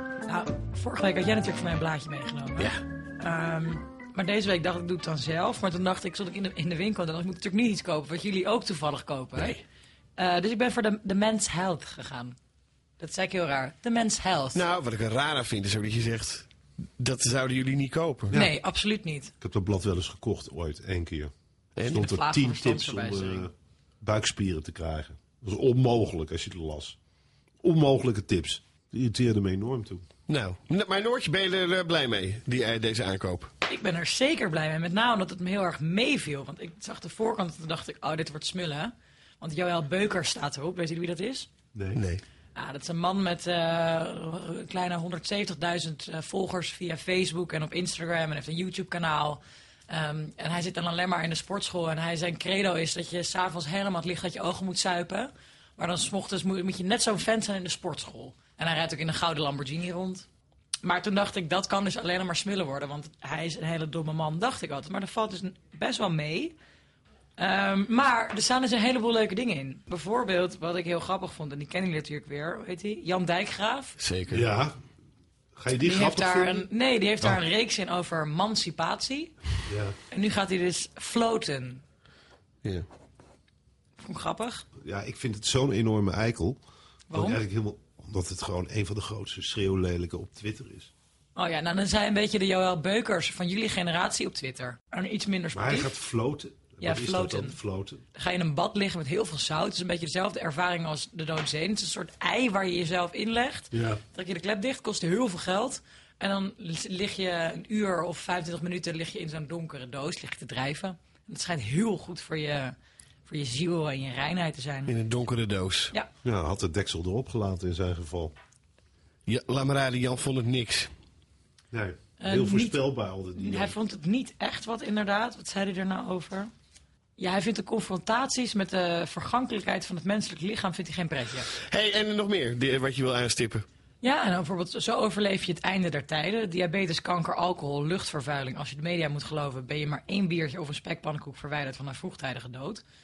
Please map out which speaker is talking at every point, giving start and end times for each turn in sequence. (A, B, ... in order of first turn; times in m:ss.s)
0:00.2-0:09.6 A
0:09.4-0:09.6 B
0:10.2-0:12.4 A
0:13.0-0:14.6 A
0:14.5-0:16.5 B
0:17.0-0:18.4 B
0:18.3-0:19.3 A
0:19.4-0:21.3 C
0:21.8-0:22.1 B
0:21.9-0:27.0 C
0:21.9-0:23.5 A
0:27.6-0:30.0 C
0:30.3-0:33.5 B
0:33.6-0:41.5 A
0:41.7-0:42.0 C
0:41.9-0:42.2 B
0:42.5-1:00.3 A
1:00.8-1:06.5 A
1:07.4-1:13.9 A
1:14.0-1:14.5 B
1:14.3-1:14.8 C
1:15.6-1:16.6 C
1:15.8-1:19.3 A
1:19.7-1:20.0 C
1:20.1-1:21.8 A
1:24.0-1:24.6 A
1:24.8-1:26.6 C
1:27.1-1:27.4 A
1:27.1-1:30.9 C
1:31.3-1:35.9 A
1:35.5-1:38.0 C
1:36.8-1:37.6 A
1:38.1-1:52.7 A
1:43.7-1:44.0 C
1:53.2-1:54.9 A
1:54.8-1:55.9 B
1:56.2-1:58.3 C
1:59.2-2:00.9 B
2:01.7-2:03.8 C
2:02.2-2:02.8 A
2:03.3-2:06.5 A
2:07.2-2:11.5 A
2:11.6-2:13.6 B
2:14.0-2:22.8 A